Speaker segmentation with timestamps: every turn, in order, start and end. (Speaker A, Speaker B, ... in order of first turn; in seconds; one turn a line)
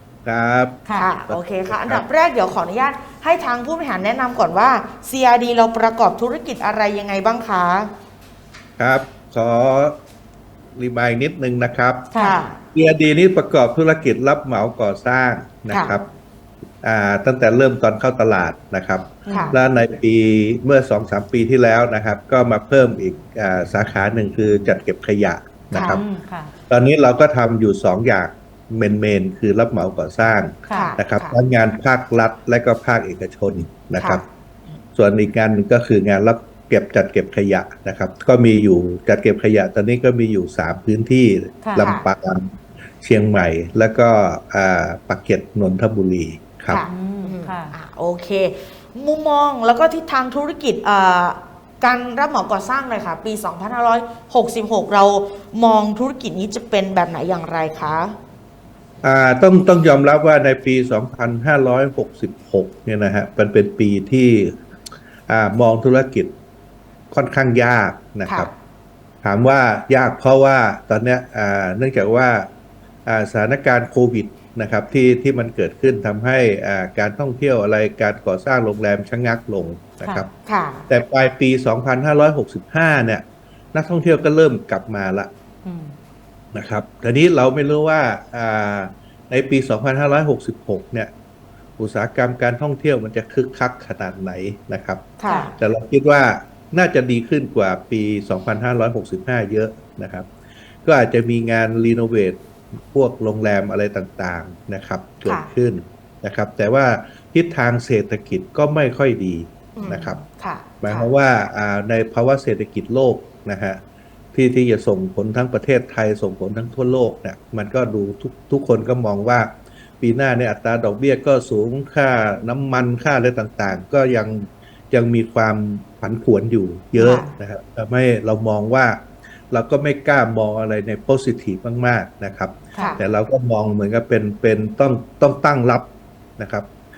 Speaker A: 0.2-2.0
Speaker B: 0.8-1.1
Speaker C: 0.9-7.9
Speaker A: 8.8-9.9
Speaker A: 10.8-12.1
Speaker B: 12.1-12.4
Speaker C: 12.1-12.6
Speaker A: 12.7-16.0
Speaker C: 15.7-16.0
Speaker A: 16.8-26.0
Speaker B: 19.2-19.6
Speaker C: 19.3-19.6
Speaker C: 25.7-26.0
Speaker B: 25.9-26.5
Speaker A: 26.7-34.2
Speaker B: 30.7-30.9
Speaker C: 30.7-31.4
Speaker C: 34.0-34.2
Speaker A: 35.0-46.8
Speaker B: 41.6-41.9
Speaker C: 41.8-42.0
Speaker C: 46.7-58.1
Speaker B: 46.8-47.7
Speaker A: 59.0-64.6
Speaker A: 65.3-66.3
Speaker A: 67.1-68.5
Speaker A: 69.2-72.5
Speaker A: 73.0-80.3
Speaker B: 80.0-80.3
Speaker C: 80.5-80.9
Speaker A: 80.9-85.3
Speaker B: 85.6-85.9
Speaker A: 86.5-91.1
Speaker A: 91.8-100.3
Speaker C: 95.2-95.5
Speaker B: 95.2-95.5
Speaker A: 100.8-110.2
Speaker C: 109.7-111.1
Speaker A: 110.8-113.8
Speaker A: 114.3-135.9
Speaker C: 127.0-127.3
Speaker B: 132.7-133.0
Speaker C: 132.8-133.0
Speaker A: 136.4-136.7